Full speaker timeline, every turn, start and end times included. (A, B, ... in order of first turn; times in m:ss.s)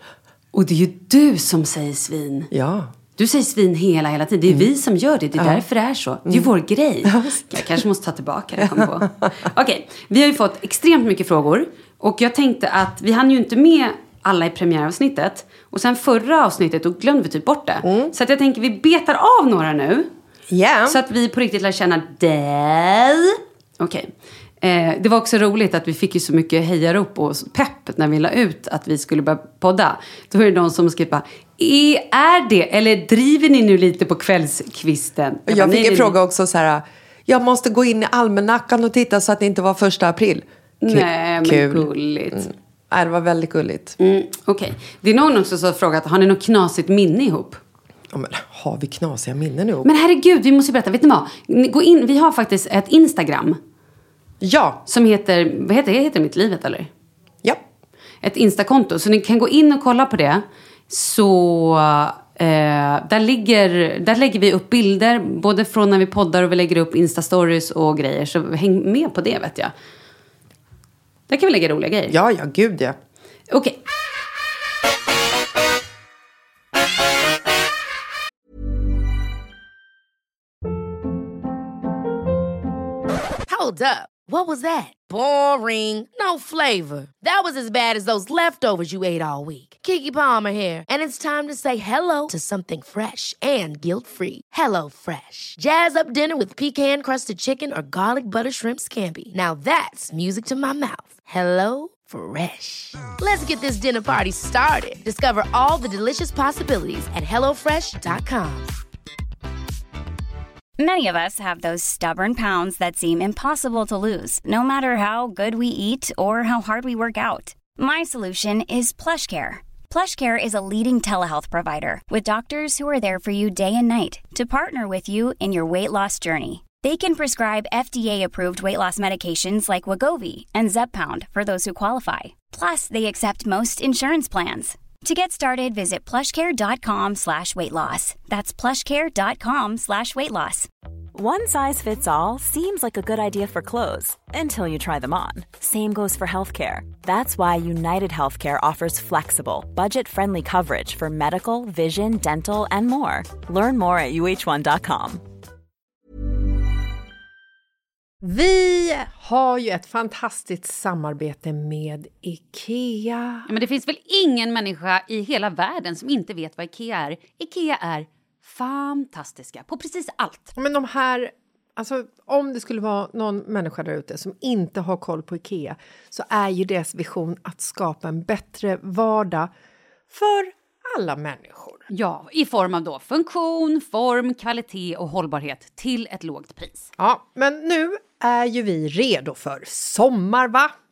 0:00.5-0:02.5 A
0:02.5-0:02.9 B
0:03.2-0:20.1 A
0:05.4-0:05.6 B
0:06.2-0:06.5 B
0:07.0-0:07.7 B
0:08.6-0:09.3 B
0:17.8-0:18.1 B
0:20.5-0:21.0 B
0:20.9-0:36.2 A
0:35.5-0:44.0 B
0:40.8-0:42.5 A
0:44.0-0:47.6 A
0:48.1-0:49.9 B
0:49.8-0:53.6 A
0:54.4-0:54.8 B
0:54.9-0:56.9 A
0:58.2-1:09.7 A
1:11.3-1:12.2 A
1:12.1-1:13.0 B
1:13.5-1:13.8 A
1:23.5-1:48.7 C
1:50.8-2:20.7 D
2:21.2-2:35.2 E
2:38.2-2:43.5 B
2:43.5-2:50.5 A
2:50.6-2:59.5 B
3:00.1-3:01.8 B
3:01.9-3:06.9 A
3:07.0-3:10.7 B